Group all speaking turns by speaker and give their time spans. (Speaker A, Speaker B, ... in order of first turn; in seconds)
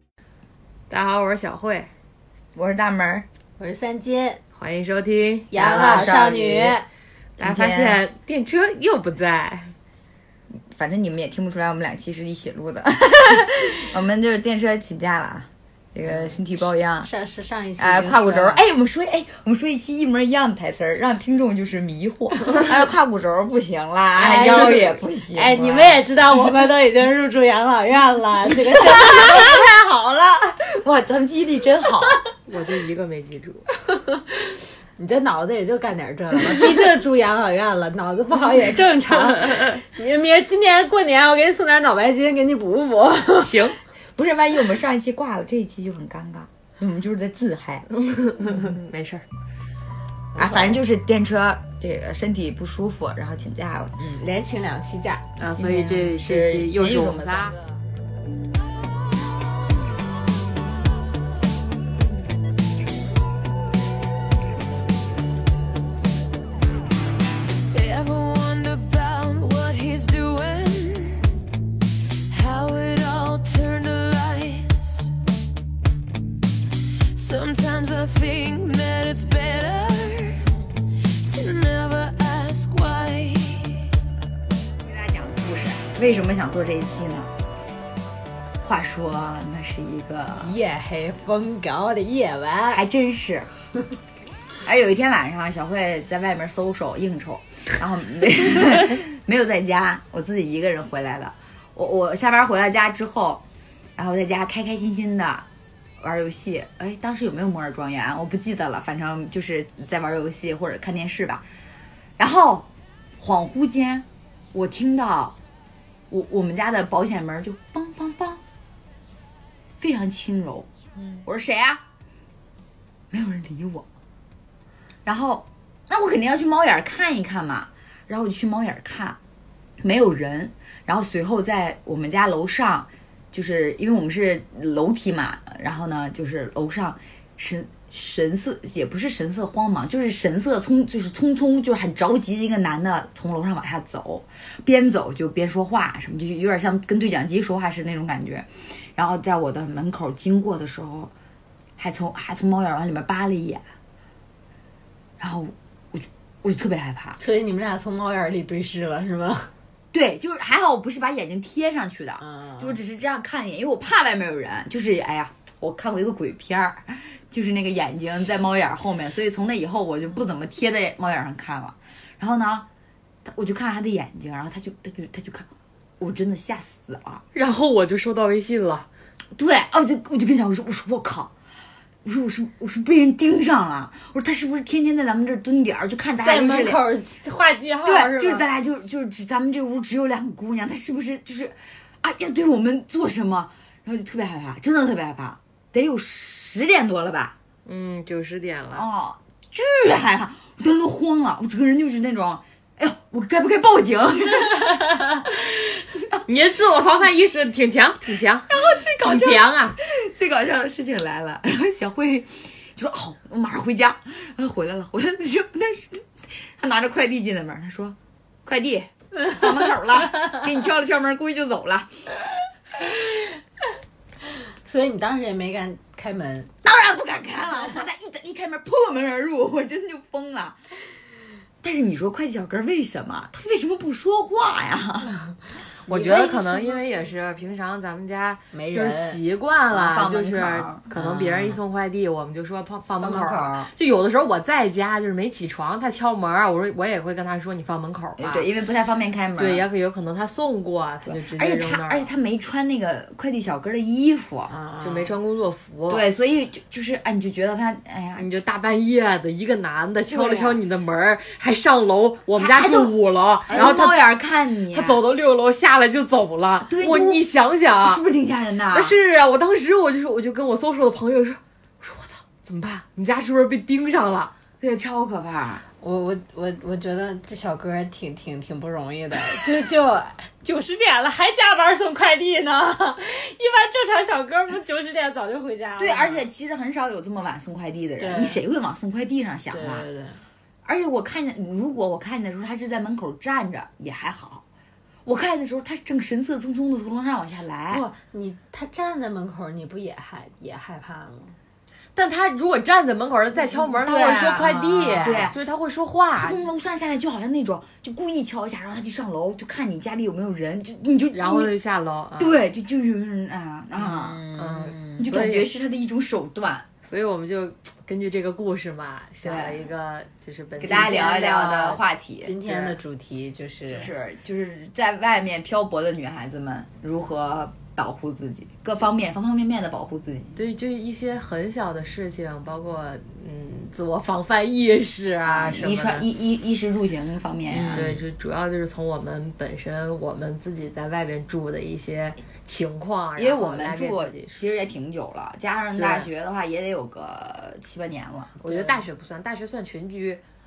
Speaker A: 0.9-1.9, 4.6-5.5, 7.4-9.8, 32.5-33.6, 39.1-39.8, 43.5-43.8, 48.0-49.2, 55.4-57.5, 177.3-178.9, 197.7-198.9, 206.3-209.8, 235.9-248.5, 249.4-252.1, 254.8-256.1, 258.2-264.1, 264.7-268.0, 268.7-274.3, 301.9-306.4, 311.1-312.4, 314.3-315.5, 316.8-321.2, 322.4-322.8, 330.4-336.1, 337.5-344.4, 345.8-346.1, 348.4-350.2
Speaker B: 2.5-3.3, 5.5-6.8, 7.4-8.0, 10.7-17.1, 17.8-26.0, 30.7-32.2, 44.2-47.9, 50.4-54.0, 55.6-57.8, 84.8-87.3, 88.6-90.5, 92.7-93.5, 94.7-103.4, 104.0-105.5, 106.0-111.5, 112.2-115.4, 116.1-118.4, 119.8-120.7, 121.2-121.8, 123.1-123.9, 125.0-129.2, 129.8-151.1, 151.8-153.7, 155.2-157.2, 159.9-172.7, 173.2-175.5, 176.0-177.2, 179.4-181.3, 182.1-186.8, 187.8-197.4, 198.7-204.8, 205.9-206.2, 208.5-221.9, 226.6-230.6, 231.6-235.1, 239.7-240.9, 248.2-249.7, 251.1-254.5, 255.9-258.3, 260.1-260.6, 262.4-263.0, 263.5-265.0, 266.6-267.2, 267.8-269.0, 274.6-275.6, 285.8-289.9, 290.6-294.4, 295.1-297.9, 303.5-305.4, 306.2-311.5, 312.2-314.3, 315.0-316.7, 319.2-319.7, 320.6-322.4, 323.7-330.4, 335.2-338.0, 343.2-348.7
Speaker C: 3.6-4.4, 5.5-6.9, 16.2-18.6, 24.2-30.6, 33.9-43.5, 54.0-55.2, 90.4-92.8, 157.2-159.5, 162.2-162.8, 186.2-188.5, 224.7-226.5, 235.9-236.8, 238.5-239.2, 240.9-241.6, 243.0-243.7, 254.5-255.1, 263.5-263.7, 275.8-286.3, 288.0-288.4, 289.5-290.2, 297.7-301.4, 304.4-305.2, 313.8-315.1, 320.6-323.9, 337.6-338.0
Speaker D: 67.7-71.3, 72.3-75.1, 77.2-80.5, 81.2-83.8